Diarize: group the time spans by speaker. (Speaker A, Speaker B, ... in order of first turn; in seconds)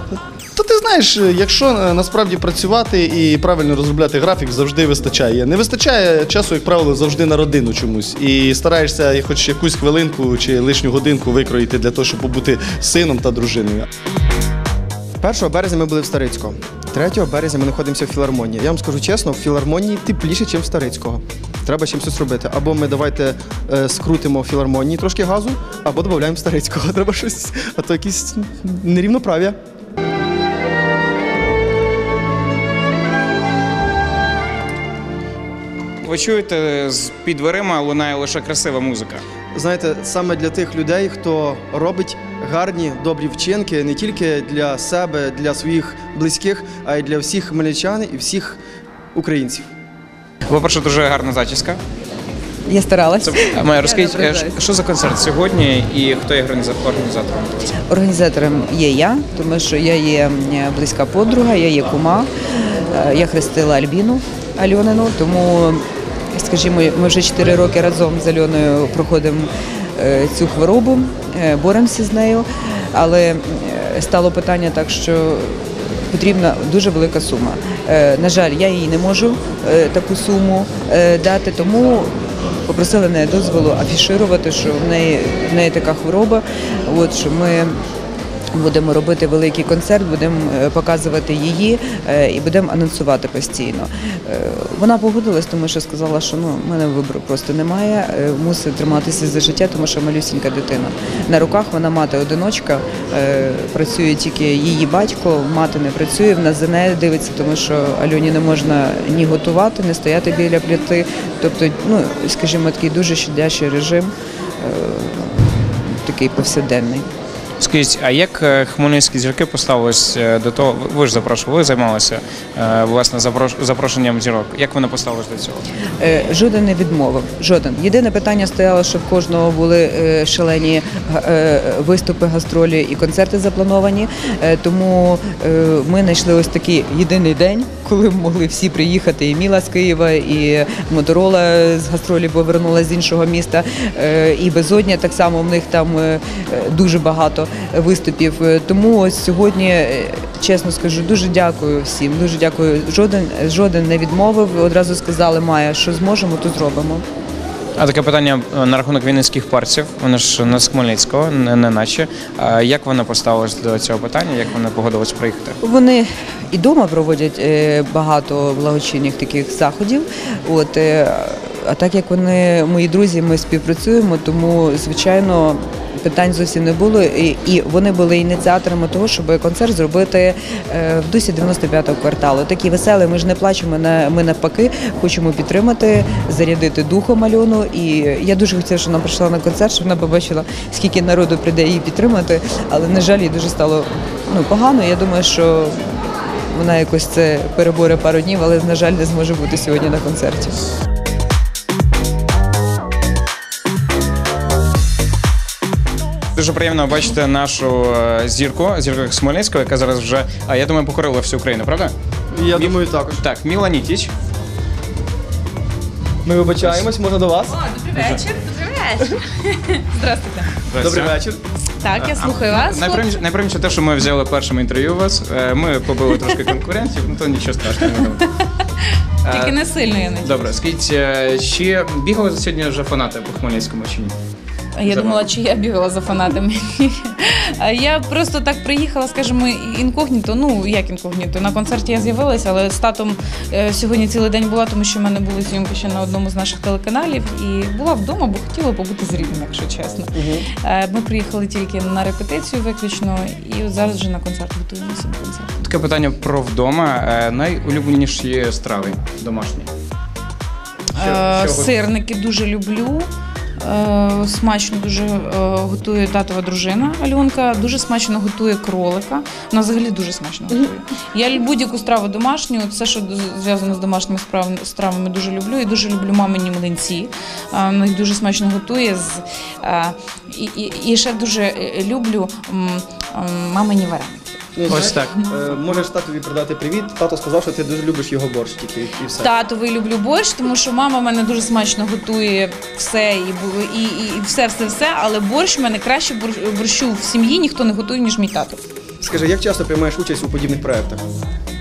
Speaker A: 0.6-13.9
Speaker B: 15.2-29.6, 39.5-48.6, 49.1-49.7, 212.3-213.2, 216.2-217.6, 220.8-221.4, 250.2-250.5, 284.6-289.3, 299.0-301.0
Speaker C: 36.0-39.2, 50.5-51.8, 53.2-57.7, 117.6-125.7, 157.8-165.6, 206.4-211.9, 212.5-214.1, 216.6-216.9, 217.9-218.2, 220.7-221.2, 222.0-228.3, 229.2-229.6, 230.2-234.2, 234.9-235.3, 255.6-259.7, 261.0-261.7, 284.7-285.1
Speaker D: 52.7-54.6, 57.9-82.1, 82.7-87.8, 88.5-117.1, 126.0-157.1, 165.6-195.8, 196.5-200.6
Speaker E: 217.5-220.6, 221.8-223.2, 227.8-228.2, 229.3-230.5, 234.8-255.7, 260.9-263.1, 263.6-284.5, 289.2-298.6